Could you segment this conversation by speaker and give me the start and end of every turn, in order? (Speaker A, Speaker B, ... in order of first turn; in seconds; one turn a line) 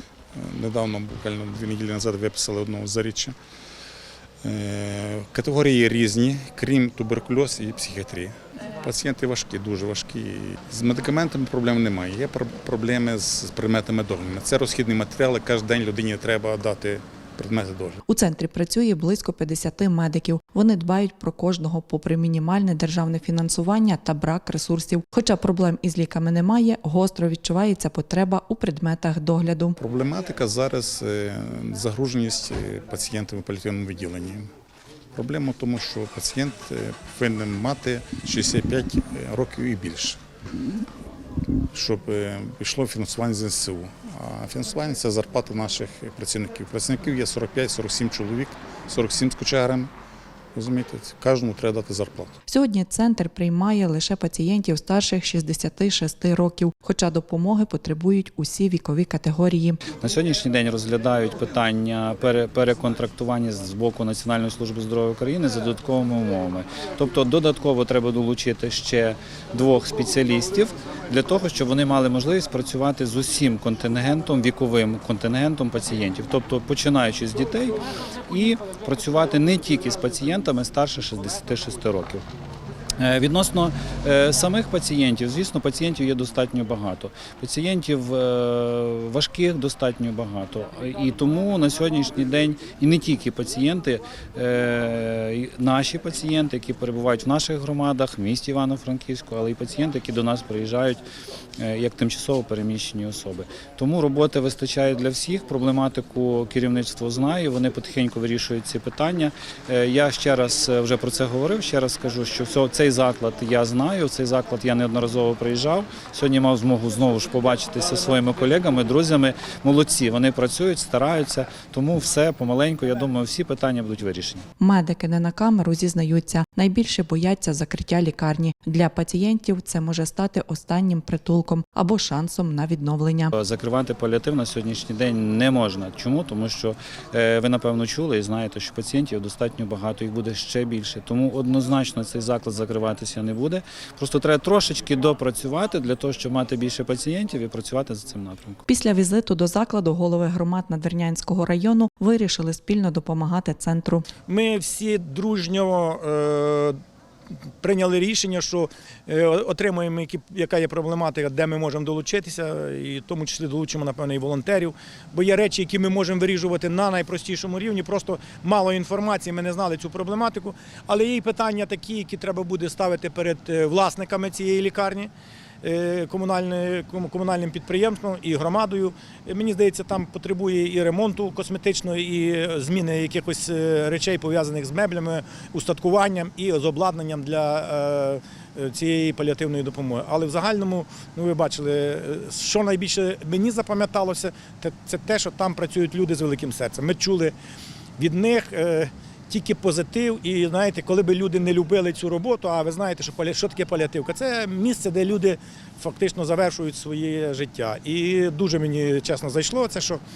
Speaker A: 0.3-3.4
Speaker A: 4.4-18.0
Speaker B: 18.1-29.8
Speaker A: 29.8-34.5
Speaker A: 35.1-40.2
Speaker A: 41.7-49.9
Speaker A: 50.5-52.4
Speaker B: 52.5-59.8
Speaker C: 60.0-82.2
Speaker C: 83.0-101.0
Speaker C: 101.6-124.5
Speaker B: 124.6-133.3
Speaker C: 133.3-148.6
Speaker B: 148.7-154.1
Speaker D: 154.3-156.8
Speaker D: 157.6-175.1
Speaker D: 175.6-197.3
Speaker D: 198.0-210.0